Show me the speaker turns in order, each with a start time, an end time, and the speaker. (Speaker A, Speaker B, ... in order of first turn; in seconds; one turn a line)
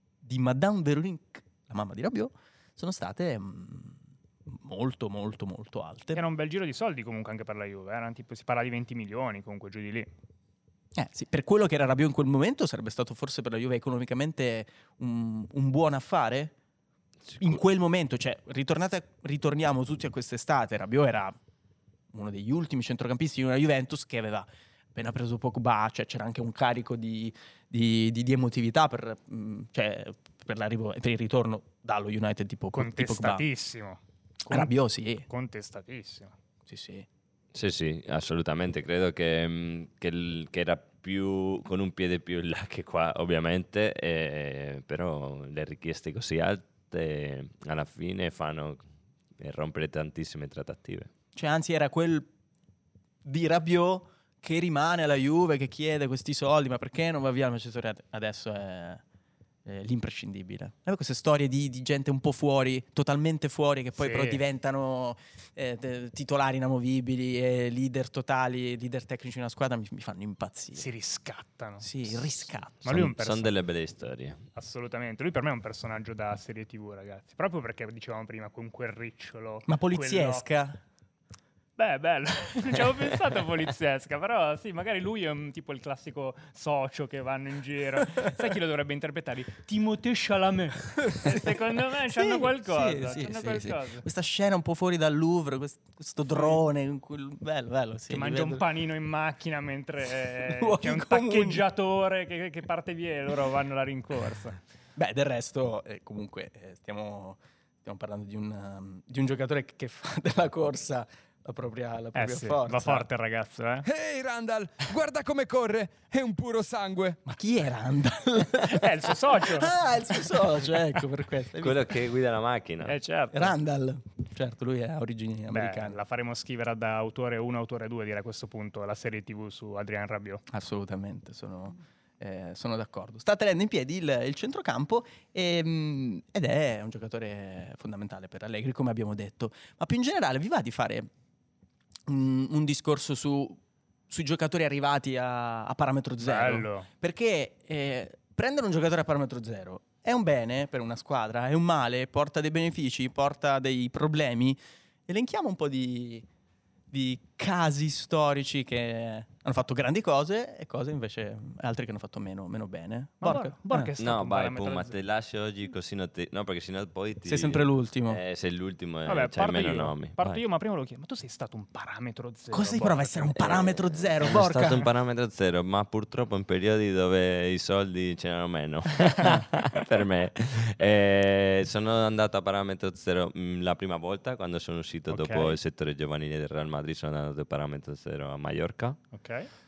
Speaker A: 0.2-6.2
Speaker B: 6.1-10.1
Speaker A: 10.9-16.5
Speaker C: 17.3-17.6
Speaker A: 17.4-21.4
Speaker A: 22.1-33.5
Speaker B: 32.8-34.7
Speaker A: 34.5-35.3
Speaker B: 35.3-36.4
Speaker A: 36.7-37.1
Speaker C: 37.5-48.8
Speaker C: 49.4-51.1
Speaker A: 51.3-52.3
Speaker A: 53.2-59.0
Speaker A: 59.6-70.9
Speaker B: 64.0-64.4
Speaker B: 70.8-72.3
Speaker A: 71.8-72.8
Speaker B: 72.8-73.5
Speaker C: 72.9-74.4
Speaker B: 74.5-80.5
Speaker A: 79.7-80.8
Speaker B: 81.8-94.1
Speaker A: 91.0-98.6
Speaker B: 96.3-96.6
Speaker B: 98.1-104.6
Speaker A: 100.5-101.6
Speaker A: 105.0-113.1
Speaker B: 112.2-113.9
Speaker D: 113.8-117.2
Speaker A: 117.2-122.0
Speaker B: 118.6-119.8
Speaker C: 121.6-123.0
Speaker B: 122.8-123.5
Speaker A: 123.3-126.0
Speaker B: 125.5-130.4
Speaker A: 130.5-141.1
Speaker A: 142.1-156.3
Speaker B: 146.2-146.9
Speaker A: 156.9-163.9
Speaker B: 163.2-164.9
Speaker C: 164.0-170.4
Speaker A: 167.3-168.2
Speaker B: 169.1-173.4
Speaker A: 172.5-174.9
Speaker C: 173.4-189.0
Speaker B: 185.1-185.6
Speaker B: 189.1-189.5